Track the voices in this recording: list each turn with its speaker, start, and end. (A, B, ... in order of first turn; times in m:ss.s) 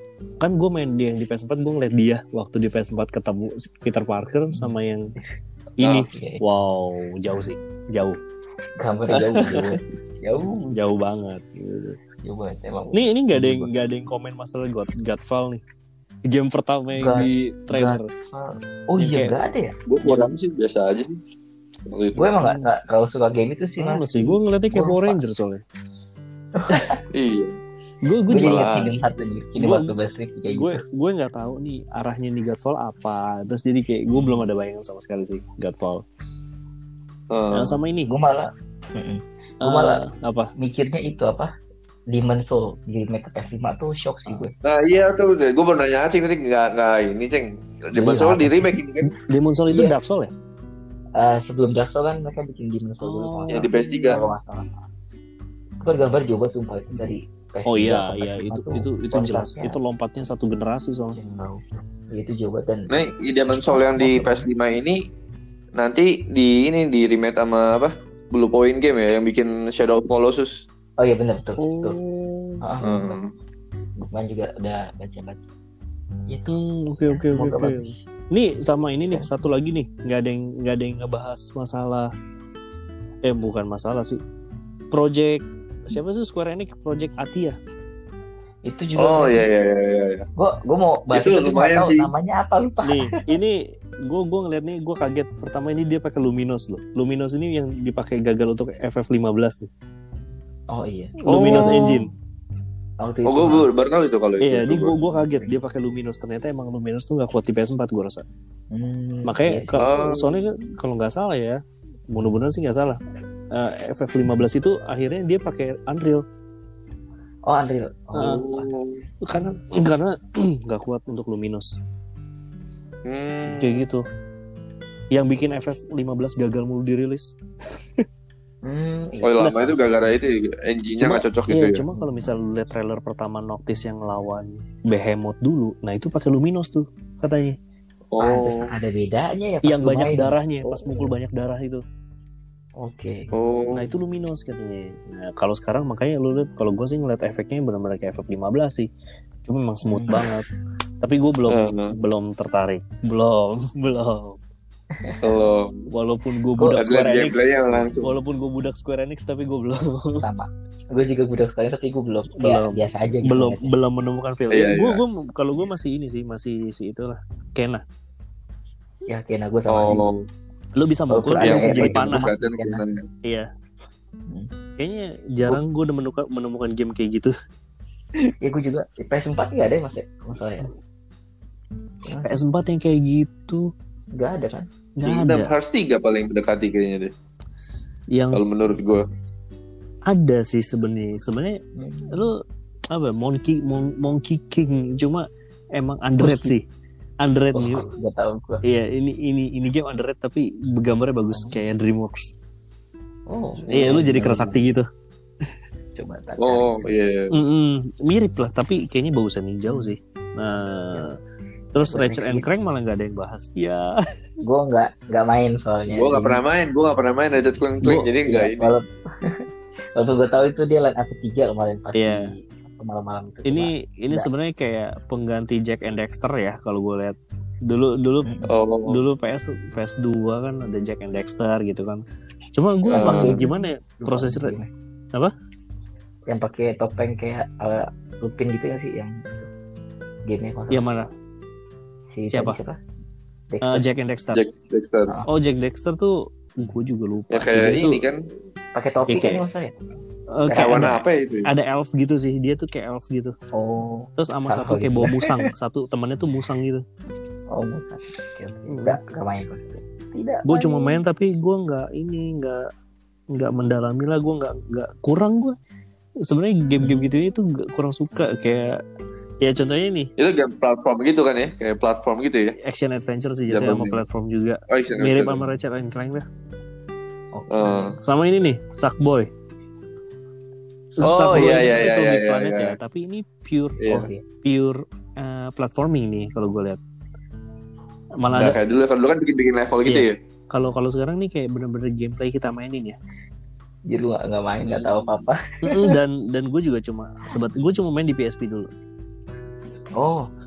0:00.4-0:05.2 A
0:05.8-0:08.2 A
0:05.8-0:06.1 B
0:06.1-0:06.4 C
0:08.8-0:10.8 C
0:10.7-0:12.0 A
0:12.1-0:13.8 C
0:12.9-0:15.6 A
0:16.3-0:18.1 A
0:17.0-0:19.8 C
0:19.0-0:19.4 A
0:19.9-0:21.2 B
0:21.9-0:22.3 B
0:22.2-0:25.2 C
0:22.4-0:22.7 A
0:23.8-0:25.6 A
0:26.6-0:27.0 C
0:27.1-0:27.6 B
0:28.0-0:28.6 A
0:28.3-0:30.8 C
0:28.4-0:28.9 B
0:29.6-0:30.0 A
0:30.5-0:36.0 A
0:34.1-0:34.5 C
0:37.3-0:37.8 B
0:37.5-0:38.1 A
0:38.1-0:40.0 C
0:39.6-0:40.5 A
0:40.6-0:41.5 C
0:42.1-0:44.5 C
0:44.6-0:49.1 B
0:48.0-0:48.8 C
0:49.2-0:50.3 A
0:49.7-0:50.0 C
0:51.2-0:54.8 C
0:53.0-0:54.2 A
0:53.5-0:54.2 B
0:55.8-0:59.8 C
0:57.7-1:01.2 A
1:01.1-1:02.9 C
1:02.9-1:05.0 B
1:03.6-1:04.5 C
1:05.8-1:10.6 B
1:11.0-1:12.0 C
1:11.6-1:12.8 A
1:12.6-1:13.1 C
1:12.8-1:13.3 B
1:14.0-1:15.4 C
1:16.3-1:16.6 C
1:16.5-1:22.1 A
1:17.1-1:18.0 C
1:23.2-1:24.2 A
1:24.9-1:27.6 A
1:28.6-1:29.5 C
1:29.0-1:30.3 B
1:30.4-1:33.2 C
1:31.1-1:32.1 B
1:32.8-1:39.7 A
1:40.7-1:41.9 C
1:41.2-1:42.1 A
1:41.3-1:42.0 B
1:43.0-1:43.7 C
1:43.2-1:45.0 B
1:44.4-1:48.2 A
1:44.9-1:45.6 C
1:48.7-1:50.0 C
1:49.2-1:53.0 A
1:49.8-1:50.4 B
1:53.5-1:56.2 A
1:57.4-1:58.7 C
1:58.2-1:58.4 A
1:58.2-1:59.0 B
1:59.2-2:01.8 A
2:03.0-2:03.8 B
2:03.4-2:04.0 A
2:05.1-2:08.0 A
2:08.6-2:10.1 C
2:09.2-2:11.8 B
2:11.0-2:17.6 A
2:11.9-2:12.4 C
2:18.1-2:18.7 B
2:18.2-2:21.1 C
2:19.6-2:21.8 A
2:22.8-2:23.3 C
2:23.3-2:23.9 B
2:23.7-2:28.9 A
2:29.4-2:30.5 A
2:29.8-2:30.3 C
2:31.0-2:34.4 A
2:31.5-2:32.0 B
2:34.9-2:35.5 C
2:35.2-2:35.9 B
2:35.9-2:40.3 A
2:36.6-2:36.9 C
2:36.8-2:38.2 B
2:37.7-2:38.0 C
2:40.2-2:43.7 C
2:42.4-2:47.8 A
2:44.5-2:45.0 B
2:49.1-2:50.0 C
2:49.7-2:50.3 B
2:50.8-2:52.3 A
2:51.1-2:52.9 C
2:51.4-2:53.1 B
2:54.8-2:57.3 A
2:58.4-3:00.7 C
3:02.0-3:02.4 C
3:02.2-3:03.7 A
3:04.1-3:04.7 C
3:05.0-3:05.5 A
3:05.0-3:07.1 B
3:08.1-3:08.5 A
3:08.3-3:09.0 B
3:10.1-3:11.6 A
3:11.8-3:12.3 C
3:12.1-3:12.4 A
3:12.9-3:16.6 A
3:16.2-3:16.6 C
3:17.2-3:17.9 A
3:17.5-3:18.6 C
3:18.6-3:22.3 A
3:21.3-3:21.6 C
3:23.3-3:24.6 C
3:23.7-3:24.9 A
3:26.0-3:26.9 C
3:26.4-3:27.3 B
3:27.3-3:31.2 A
3:29.7-3:29.9 C
3:31.7-3:34.0 A
3:31.8-3:32.5 C
3:34.4-3:36.4 C
3:35.9-3:38.7 B
3:37.8-3:38.1 A
3:38.2-3:44.3 C
3:42.0-3:42.3 A
3:43.5-3:48.3 A
3:48.2-3:48.5 C
3:48.5-3:49.0 B
3:48.9-3:52.0 A
3:52.6-3:54.5 A
3:52.9-3:53.4 B
3:52.9-3:54.7 C
3:56.3-3:59.5 C
4:00.3-4:00.9 C
4:00.7-4:01.1 A
4:02.1-4:02.8 C
4:02.3-4:02.6 A
4:03.5-4:03.9 C
4:03.6-4:04.4 A
4:04.3-4:05.2 B
4:05.3-4:08.1 A
4:07.3-4:08.2 B
4:08.7-4:09.8 C
4:09.1-4:09.4 A
4:10.3-4:13.4 A
4:10.5-4:11.0 C
4:10.5-4:11.5 B
4:13.5-4:15.5 C
4:14.2-4:16.8 A
4:17.5-4:21.0 C
4:18.7-4:19.0 A
4:20.5-4:22.7 A
4:23.3-4:25.6 A
4:26.2-4:28.8 A
4:26.8-4:27.1 C
4:29.4-4:30.1 A
4:30.2-4:32.6 B
4:32.6-4:36.3 A
4:33.5-4:34.0 B
4:34.7-4:35.5 B
4:37.3-4:38.0 C
4:37.5-4:38.0 B
4:38.0-4:39.3 A
4:41.0-4:43.8 A
4:41.0-4:42.8 B
4:41.3-4:41.6 C
4:43.8-4:44.1 B
4:43.9-4:44.2 C
4:44.4-4:46.8 A
4:48.2-4:48.6 A
4:48.3-4:50.2 B
4:49.9-4:53.0 A
4:53.9-4:56.0 C
4:54.7-4:55.0 B
4:55.6-4:58.7 A
5:00.0-5:00.3 C